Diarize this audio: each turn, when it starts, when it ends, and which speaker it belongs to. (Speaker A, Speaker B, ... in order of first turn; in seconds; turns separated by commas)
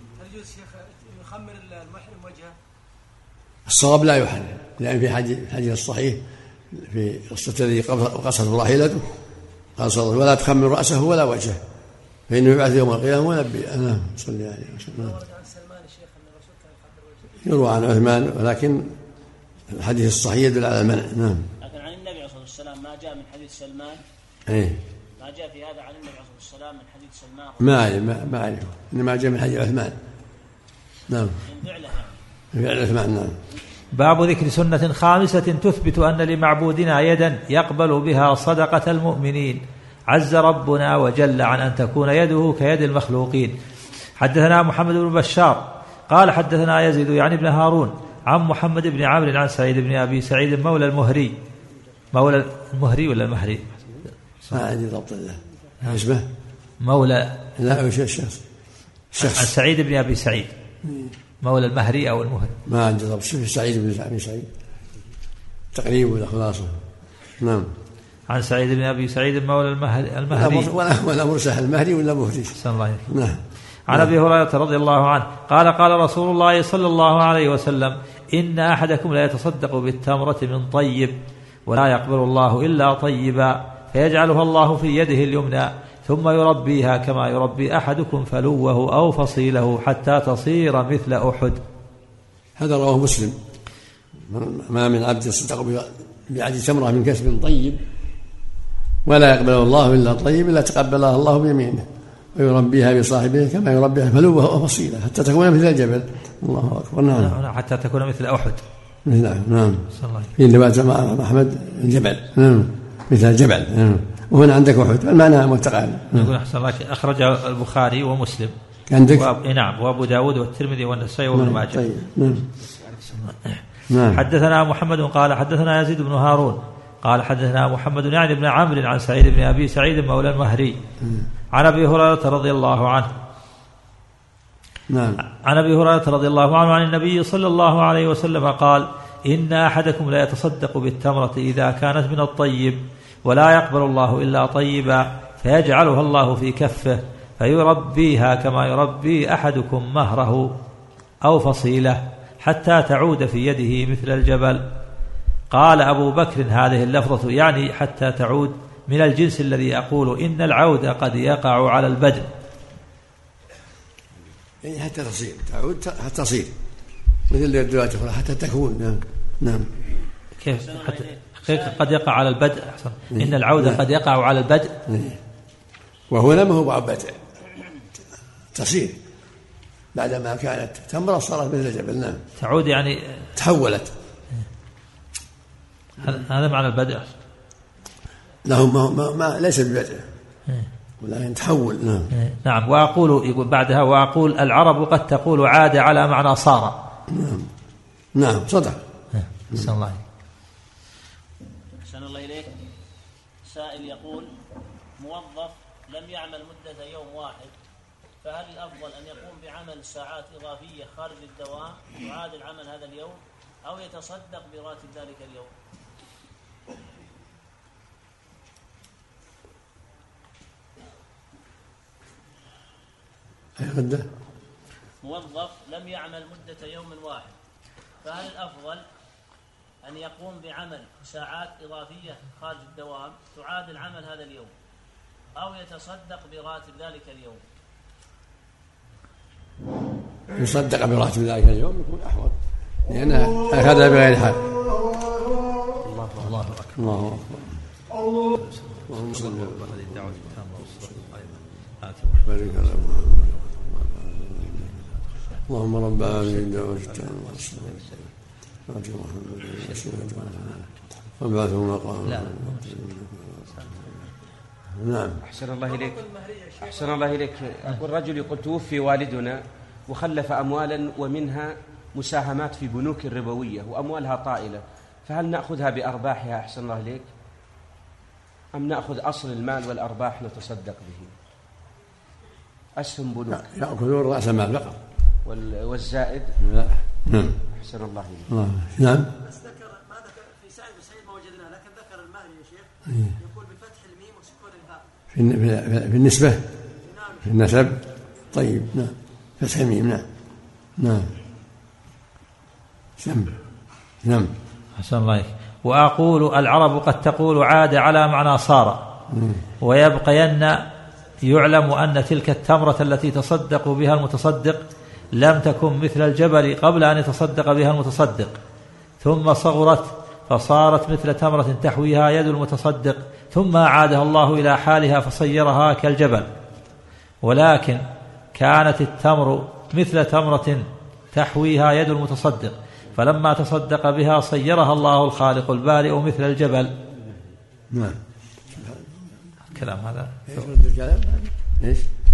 Speaker A: 0.2-2.5, Speaker B: 3.7-6.2, Speaker B: 6.7-9.1, Speaker B: 9.8-11.6, Speaker B: 12.3-15.2, Speaker A: 14.9-17.4, Speaker B: 17.4-19.0, Speaker B: 19.7-21.5, Speaker C: 21.6-24.0, Speaker B: 24.5-24.8, Speaker C: 25.2-27.9, Speaker B: 27.6-30.0, Speaker B: 31.1-31.4, Speaker C: 31.4-32.2, Speaker B: 32.5-33.4, Speaker D: 33.9-43.5, Speaker D: 44.2-51.3, Speaker D: 52.1-53.8, Speaker B: 54.5-56.3, Speaker D: 56.8-57.5, Speaker B: 57.6-58.4, Speaker B: 59.1-59.5, Speaker D: 59.2-60.5, Speaker B: 60.8-61.1, Speaker D: 61.4-62.6, Speaker B: 62.7-64.5, Speaker B: 65.7-66.8, Speaker B: 67.4-67.7, Speaker D: 68.3-70.7, Speaker B: 70.3-72.6, Speaker D: 72.6-73.1, Speaker B: 73.1-74.1, Speaker D: 73.9-81.2, Speaker D: 81.7-91.6, Speaker B: 92.6-93.4, Speaker B: 94.3-97.8, Speaker B: 99.0-107.4, Speaker D: 107.2-108.6, Speaker B: 109.0-116.3, Speaker D: 110.0-110.3, Speaker D: 116.2-118.5, Speaker B: 118.9-119.3, Speaker D: 119.1-121.9, Speaker B: 121.3-122.5, Speaker E: 122.5-123.2, Speaker D: 123.2-130.8, Speaker B: 123.9-124.2, Speaker B: 131.0-131.3, Speaker D: 131.5-133.1, Speaker B: 134.9-135.2, Speaker D: 135.4-150.5, Speaker D: 151.2-154.6, Speaker D: 155.5-162.3, Speaker B: 164.6-166.5, Speaker B: 167.3-169.7, Speaker D: 170.4-174.8, Speaker C: 170.6-171.9, Speaker B: 173.1-173.8, Speaker B: 174.9-175.2, Speaker B: 176.1-177.2, Speaker B: 178.5-179.0, Speaker B: 179.9-182.2, Speaker D: 182.4-183.3, Speaker B: 183.4-183.9, Speaker D: 186.0-187.2, Speaker B: 188.4-190.1, Speaker B: 191.0-192.1, Speaker D: 192.1-196.8, Speaker B: 197.1-197.5, Speaker B: 198.2-198.8, Speaker D: 199.1-200.0, Speaker C: 201.8-202.5, Speaker C: 203.4-204.3, Speaker C: 205.0-207.5, Speaker C: 208.2-215.5, Speaker B: 223.6-224.1, Speaker C: 225.0-227.3, Speaker C: 228.0-228.9, Speaker C: 229.8-234.5, Speaker C: 235.4-237.4, Speaker B: 240.3-244.7, Speaker D: 245.9-247.3, Speaker B: 246.8-247.6, Speaker D: 248.2-253.6, Speaker B: 248.9-250.2, Speaker B: 252.2-254.8, Speaker D: 254.6-255.4, Speaker B: 255.5-258.0, Speaker D: 256.0-257.7, Speaker B: 258.7-260.6, Speaker D: 259.6-260.2, Speaker B: 261.2-263.3, Speaker D: 262.1-262.9, Speaker B: 264.7-265.2, Speaker E: 265.2-266.0, Speaker A: 265.6-267.2, Speaker E: 266.6-277.1, Speaker E: 278.5-281.1, Speaker E: 282.8-283.4, Speaker B: 283.3-284.8, Speaker E: 285.2-286.4, Speaker B: 286.4-287.4, Speaker E: 287.5-288.3, Speaker B: 288.3-289.1, Speaker A: 289.2-294.8, Speaker B: 295.1-296.4, Speaker A: 296.8-297.3, Speaker B: 297.2-300.1, Speaker B: 300.8-301.1, Speaker B: 303.0-303.4, Speaker B: 304.0-304.3, Speaker D: 304.8-308.8, Speaker B: 309.1-309.4, Speaker D: 309.6-310.6, Speaker D: 311.3-314.6, Speaker D: 315.1-318.4, Speaker D: 319.0-326.3, Speaker D: 327.2-327.8, Speaker D: 328.4-336.7, Speaker B: 337.7-339.2, Speaker D: 339.5-340.4, Speaker B: 340.3-341.9